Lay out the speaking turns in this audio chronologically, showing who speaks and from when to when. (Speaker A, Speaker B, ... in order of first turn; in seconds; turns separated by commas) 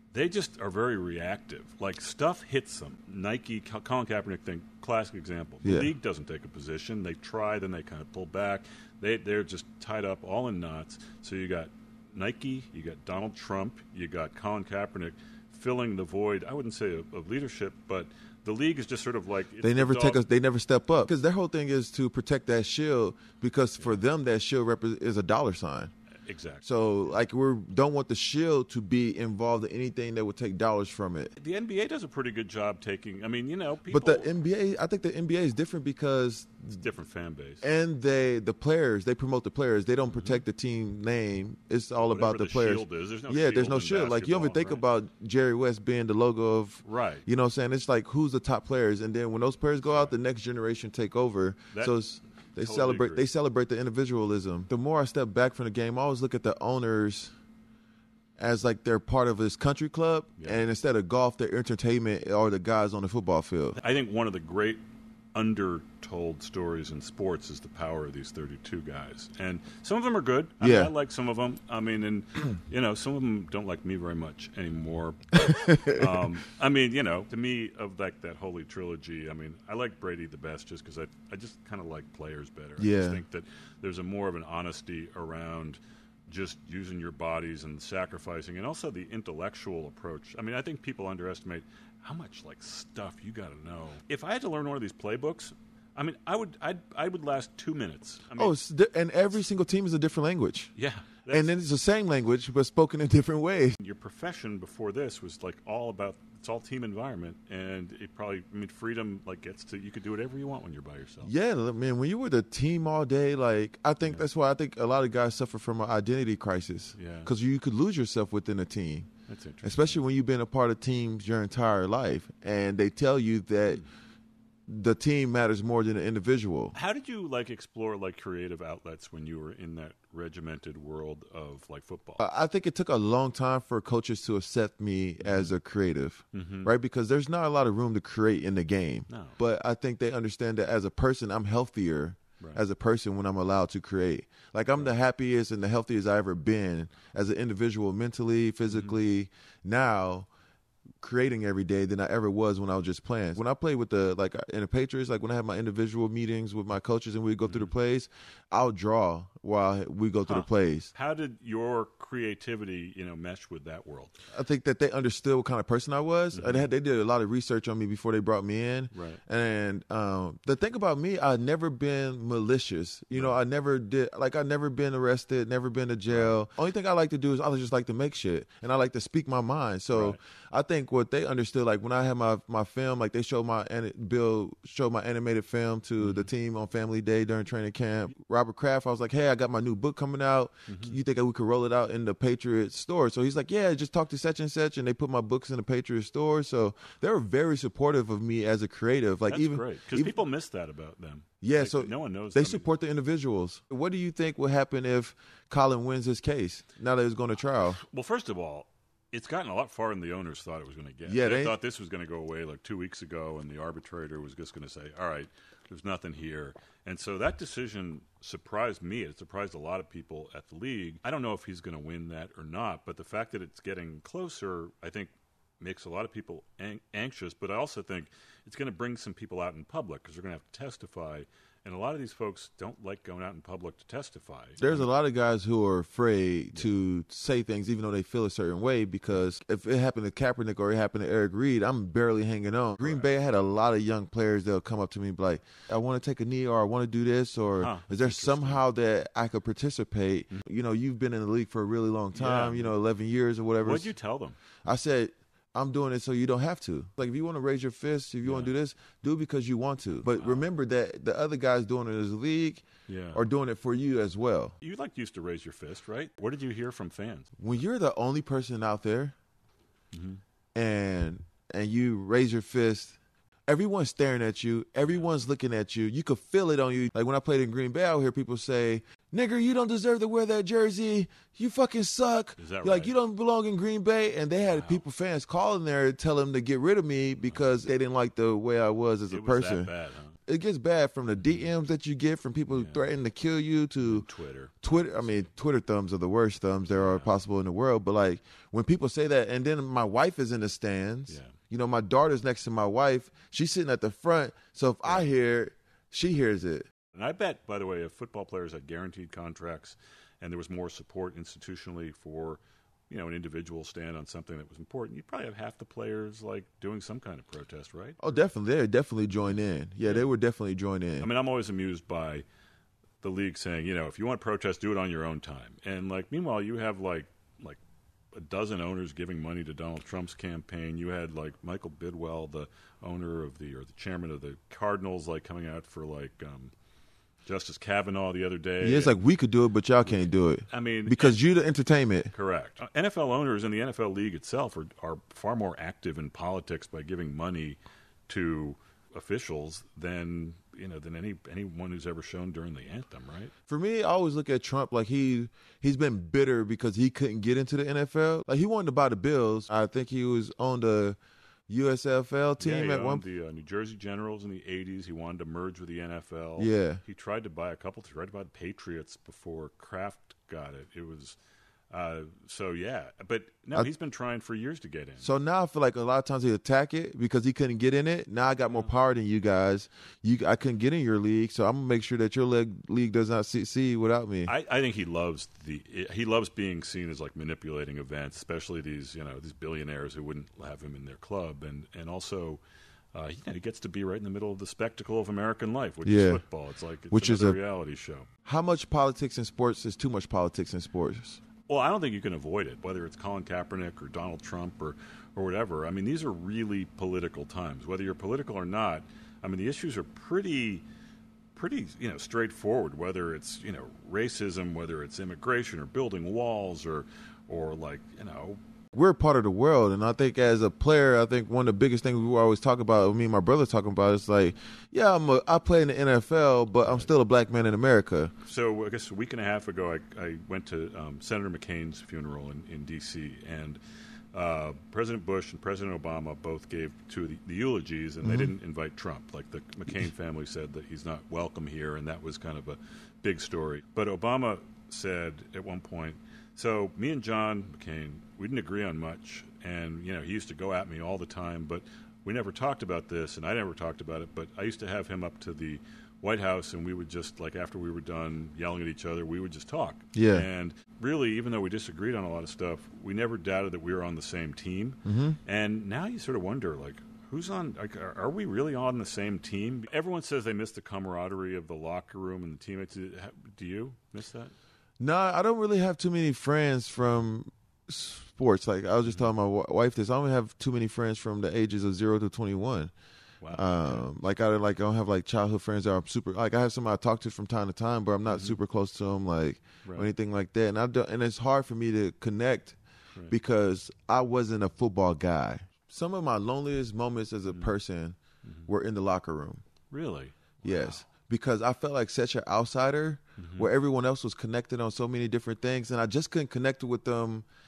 Speaker A: 0.1-20.2, Speaker B: 5.6-5.9, Speaker B: 19.6-25.9, Speaker A: 26.2-26.8, Speaker B: 26.6-31.3, Speaker A: 31.4-34.3, Speaker B: 33.9-36.8, Speaker A: 36.7-37.6, Speaker B: 37.6-57.3, Speaker A: 40.1-40.4, Speaker A: 42.0-44.8, Speaker A: 46.8-47.2, Speaker A: 49.9-50.1, Speaker A: 52.6-53.3, Speaker B: 58.4-63.8, Speaker A: 60.4-60.7, Speaker A: 63.8-64.8, Speaker A: 65.3-98.5, Speaker B: 70.6-70.9, Speaker B: 75.4-76.2, Speaker B: 82.8-83.2, Speaker B: 98.4-100.7, Speaker A: 100.7-101.5, Speaker B: 101.3-103.8, Speaker A: 103.8-111.3, Speaker B: 111.2-119.1, Speaker A: 116.9-117.3, Speaker A: 119.3-120.0, Speaker B: 119.6-123.8, Speaker B: 124.7-126.7, Speaker A: 126.7-132.2, Speaker B: 132.2-150.3, Speaker A: 135.2-135.5, Speaker A: 136.3-136.7, Speaker A: 139.1-139.4, Speaker A: 148.7-149.0, Speaker B: 151.0-160.9, Speaker A: 160.2-164.2, Speaker B: 164.3-200.2, Speaker A: 166.3-166.7, Speaker A: 168.9-169.2, Speaker A: 173.1-173.4, Speaker A: 176.1-176.4, Speaker A: 179.9-180.2, Speaker A: 186.0-186.3, Speaker A: 190.7-190.9, Speaker A: 199.3-202.7, Speaker B: 201.4-207.8, Speaker A: 207.6-234.9, Speaker B: 211.1-211.6, Speaker B: 234.6-253.9, Speaker A: 242.8-243.1, Speaker A: 247.6-248.6, Speaker A: 252.1-252.7, Speaker A: 253.6-254.4, Speaker B: 254.6-264.5, Speaker A: 258.2-258.5, Speaker A: 260.1-260.5, Speaker A: 262.9-263.2, Speaker A: 264.6-267.3, Speaker B: 267.4-269.1, Speaker A: 269.9-270.2, Speaker B: 270.5-289.7, Speaker A: 282.4-282.9, Speaker A: 284.4-284.8, Speaker A: 289.1-290.2, Speaker B: 290.2-294.0, Speaker A: 292.5-292.8, Speaker A: 293.8-295.3, Speaker B: 294.6-306.7, Speaker A: 296.7-297.1, Speaker A: 301.1-301.3, Speaker A: 304.8-305.1, Speaker A: 306.9-318.0, Speaker B: 318.0-321.1, Speaker A: 319.1-320.1, Speaker A: 321.0-322.2, Speaker A: 323.0-327.6, Speaker A: 328.1-336.5, Speaker A: 337.2-339.0, Speaker B: 338.6-342.1, Speaker A: 339.8-341.2, Speaker A: 342.1-353.3, Speaker B: 353.5-361.0, Speaker B: 361.5-363.0, Speaker A: 362.4-371.2, Speaker B: 366.4-366.8, Speaker A: 371.7-375.1, Speaker B: 375.0-384.3, Speaker A: 378.4-378.7, Speaker A: 384.2-392.4, Speaker A: 392.9-398.1, Speaker B: 395.8-396.2, Speaker B: 396.9-397.4, Speaker B: 398.2-401.2, Speaker A: 401.5-410.6, Speaker A: 411.3-418.4, Speaker B: 418.7-428.1, Speaker A: 426.6-426.9, Speaker A: 428.2-433.6, Speaker A: 434.1-474.3, Speaker B: 438.0-438.3, Speaker B: 459.9-460.3, Speaker B: 464.9-465.2, Speaker B: 474.8-482.7, Speaker A: 478.8-479.1, Speaker A: 483.2-483.9, Speaker B: 483.3-492.6, Speaker A: 488.1-488.4, Speaker B: 493.1-499.4, Speaker A: 497.3-497.5, Speaker A: 499.7-500.8, Speaker B: 500.4-507.2, Speaker A: 503.2-503.5